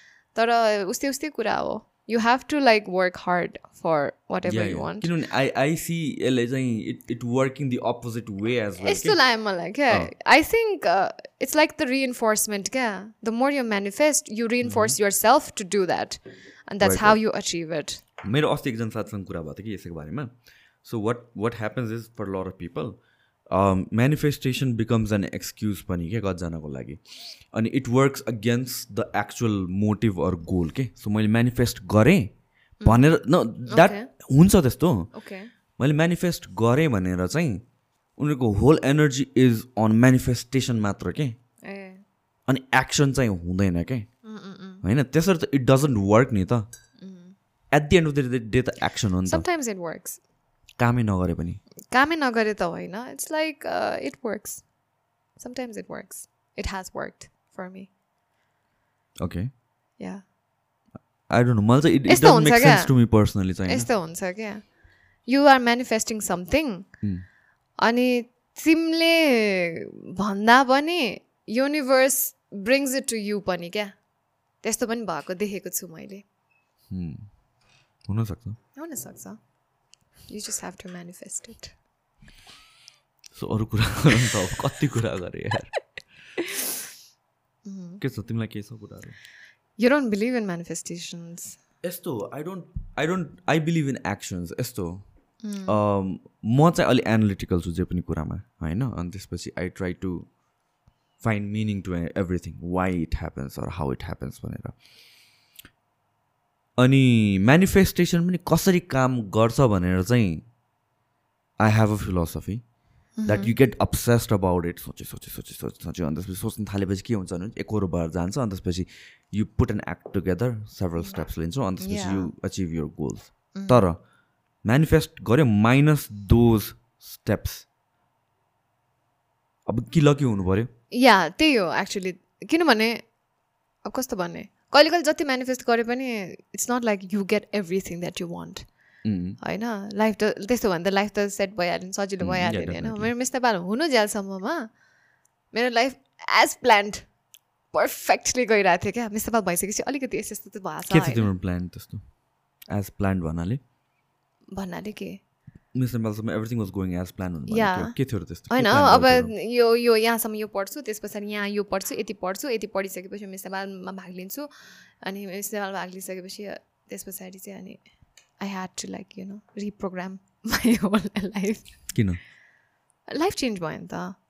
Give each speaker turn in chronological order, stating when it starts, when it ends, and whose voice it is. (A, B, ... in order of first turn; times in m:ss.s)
0:00.4-0:05.1 A
0:04.4-0:09.2 B
0:08.8-0:18.0 A
0:14.6-0:15.0 B
0:16.8-0:17.2 B
0:18.2-0:20.3 B
0:20.8-0:23.0 B
0:23.5-0:32.3 B
0:32.8-0:33.1 A
0:32.8-0:35.1 B
0:33.7-0:34.1 A
0:35.1-0:35.5 A
0:35.8-0:37.6 B
0:38.2-0:41.4 B
0:41.6-0:42.0 A
0:42.5-0:44.1 B
0:44.2-0:44.8 A
0:44.8-0:46.6 B
0:47.0-0:47.4 A
0:47.7-0:49.5 B
0:49.3-0:50.2 A
0:50.8-0:51.6 B
0:51.9-0:54.6 A
0:55.4-0:57.9 A
0:59.2-0:59.5 B
1:01.3-1:03.9 B
1:02.1-1:02.9 A
1:03.7-1:04.7 A
1:05.3-1:06.9 A
1:07.8-1:13.9 A
1:14.6-1:16.2 A
1:16.9-1:17.3 B
1:18.1-1:18.6 B
1:18.8-1:19.4 A
1:20.3-1:21.7 A
1:23.4-1:25.7 B
1:26.4-1:26.7 A
1:27.6-1:28.0 A
1:28.0-1:29.2 B
1:29.8-1:31.6 A
1:31.8-1:35.0 B
1:35.4-1:35.8 A
1:35.6-1:40.3 B
1:41.2-1:44.8 B
1:46.8-1:50.5 B
1:51.6-1:52.6 B
1:53.2-1:53.5 A
1:53.2-2:04.0 B
2:01.8-2:02.3 A
2:03.5-2:03.8 A
2:04.6-2:07.6 B
2:09.7-2:10.7 B
2:10.9-2:13.0 A
2:13.8-2:18.7 A
2:19.0-2:19.4 B
2:19.4-2:24.7 A
2:22.2-2:23.1 B
2:25.5-2:27.1 A
2:27.7-2:31.3 A
2:30.9-2:32.1 B
2:32.7-2:33.6 B
2:34.5-2:35.2 A
2:35.7-2:39.3 B
2:37.5-2:38.0 A
2:38.5-2:44.5 A
2:45.0-2:47.8 A
2:48.4-2:51.8 A
2:51.9-2:52.2 B
2:53.1-2:54.2 A